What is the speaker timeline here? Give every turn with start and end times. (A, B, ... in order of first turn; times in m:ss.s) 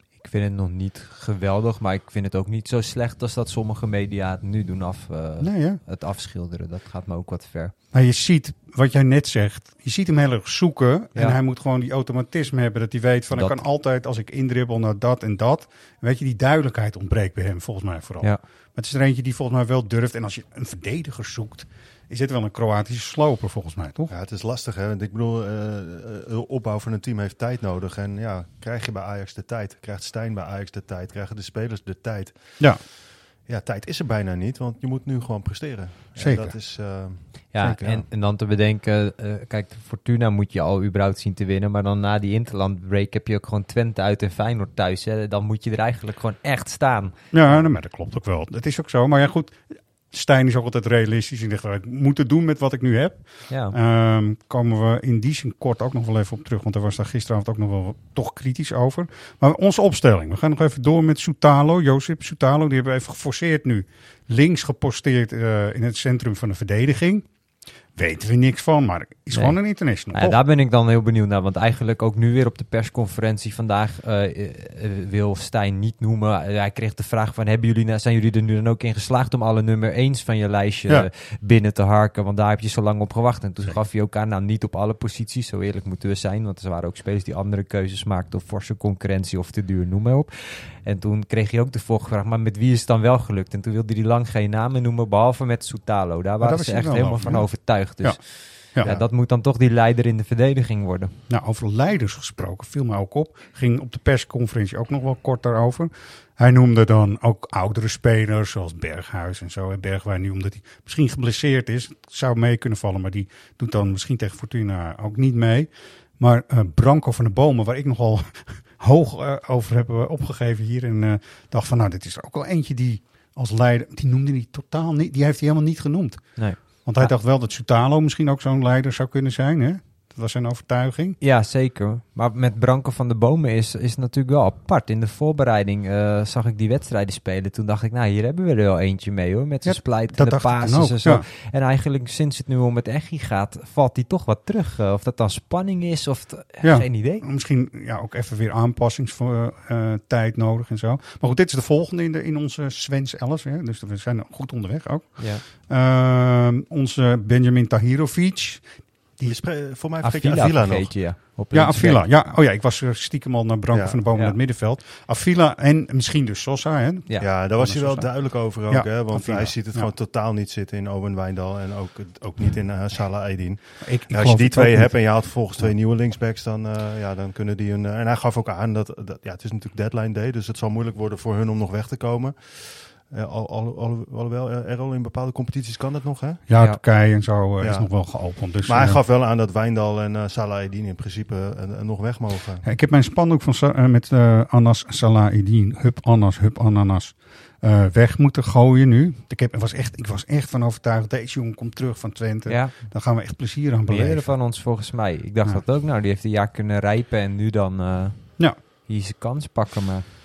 0:00.2-0:07.7 A
0:05.4-0:05.8 B
0:07.9-0:24.1 B
0:13.3-0:13.6 A
0:24.1-0:32.8 C
0:33.4-0:38.0 C
0:36.2-0:36.5 B
0:37.5-0:47.6 A
0:47.3-1:07.3 B
0:53.5-0:53.8 A
1:08.0-1:10.4 B
1:10.1-1:41.2 A
1:36.4-1:38.9 B
1:41.3-2:11.2 B
2:06.4-2:07.1 A
2:11.2-2:27.2 A
2:19.6-2:21.2 B
2:26.6-2:38.7 B
2:35.2-2:35.4 A
2:39.2-2:41.0 C
2:40.0-2:42.1 A
2:41.5-2:49.9 B
2:43.7-2:44.0 C
2:47.2-3:06.4 C
2:53.8-2:55.7 B
3:06.5-3:09.0 B
3:06.6-3:06.8 A
3:07.6-3:07.9 C
3:08.6-3:12.6 C
3:12.6-3:24.4 B
3:22.5-3:22.8 A
3:23.9-3:30.0 A